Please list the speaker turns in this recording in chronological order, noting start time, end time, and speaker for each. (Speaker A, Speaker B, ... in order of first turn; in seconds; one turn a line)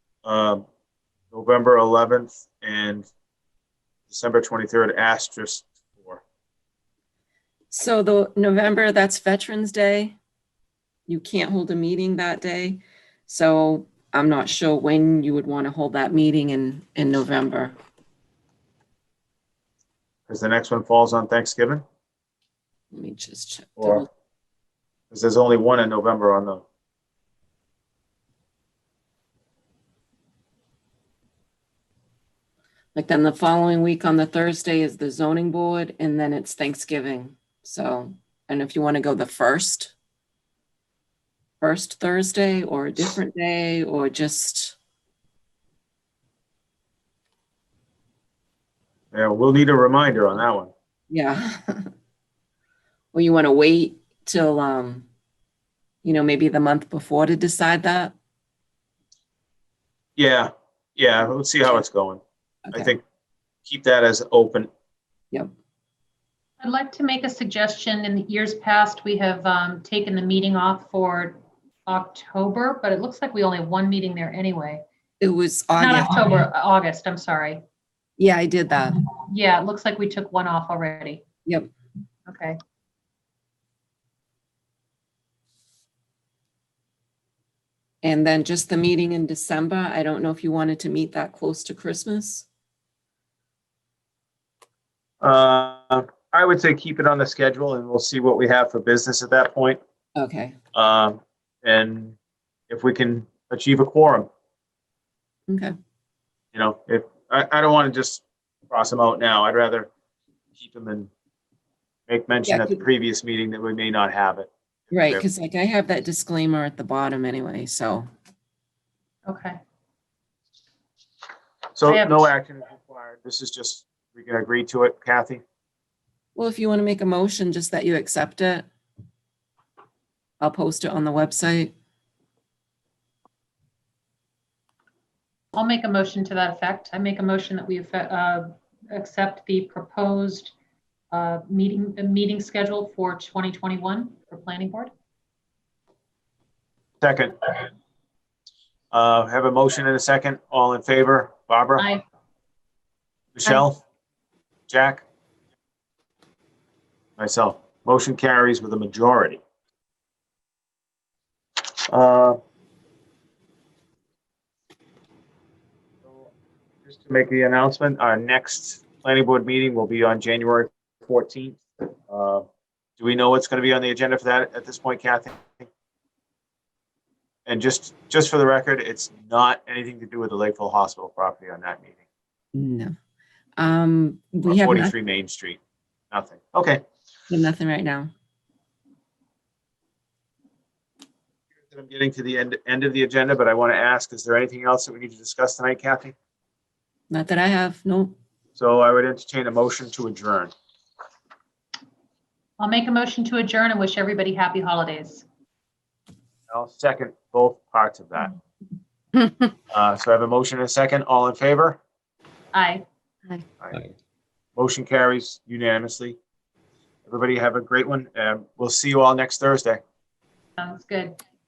Speaker A: 0.2-0.6
Speaker A: 1.3-3.1
Speaker A: 4.1-6.2
Speaker B: 7.7-10.2
Speaker B: 11.1-17.8
Speaker A: 20.3-21.8
Speaker B: 22.9-24.1
Speaker A: 23.8-24.1
Speaker A: 25.1-26.6
Speaker B: 32.9-39.9
Speaker B: 41.6-44.8
Speaker A: 49.1-50.7
Speaker B: 51.1-51.9
Speaker B: 53.1-55.1
Speaker B: 56.0-58.1
Speaker A: 60.2-62.2
Speaker B: 62.7-62.9
Speaker A: 62.7-63.0
Speaker A: 63.6-64.7
Speaker C: 66.6-74.8
Speaker B: 75.2-76.4
Speaker C: 75.8-77.6
Speaker B: 78.2-79.0
Speaker C: 79.2-81.2
Speaker C: 82.3-82.6
Speaker B: 88.0-92.5
Speaker A: 95.2-99.8
Speaker B: 100.2-100.5
Speaker A: 100.7-102.2
Speaker A: 102.7-104.3
Speaker B: 105.5-105.7
Speaker A: 106.5-109.9
Speaker A: 110.5-111.1
Speaker A: 112.1-115.2
Speaker B: 112.5-112.8
Speaker B: 114.9-118.1
Speaker C: 119.3-119.6
Speaker A: 121.7-125.4
Speaker C: 121.8-122.3
Speaker B: 126.3-128.7
Speaker B: 130.4-131.7
Speaker C: 135.5-140.5
Speaker C: 141.1-144.9
Speaker A: 147.0-147.3
Speaker A: 148.9-151.9
Speaker A: 153.3-153.8
Speaker A: 154.7-155.0
Speaker A: 157.2-159.4
Speaker A: 161.9-162.4
Speaker A: 166.0-166.3
Speaker A: 166.8-172.4
Speaker A: 173.0-175.7
Speaker A: 177.4-182.0
Speaker B: 182.5-182.9
Speaker B: 183.6-184.9
Speaker A: 184.4-185.6
Speaker A: 186.1-186.8
Speaker B: 187.3-188.1
Speaker A: 191.6-196.2
Speaker B: 197.1-198.1
Speaker A: 198.5-200.5
Speaker C: 202.6-205.2
Speaker A: 206.5-208.3
Speaker A: 209.7-211.8
Speaker C: 212.5-212.8
Speaker A: 214.6-216.2
Speaker A: 217.1-219.8
Speaker C: 220.6-221.2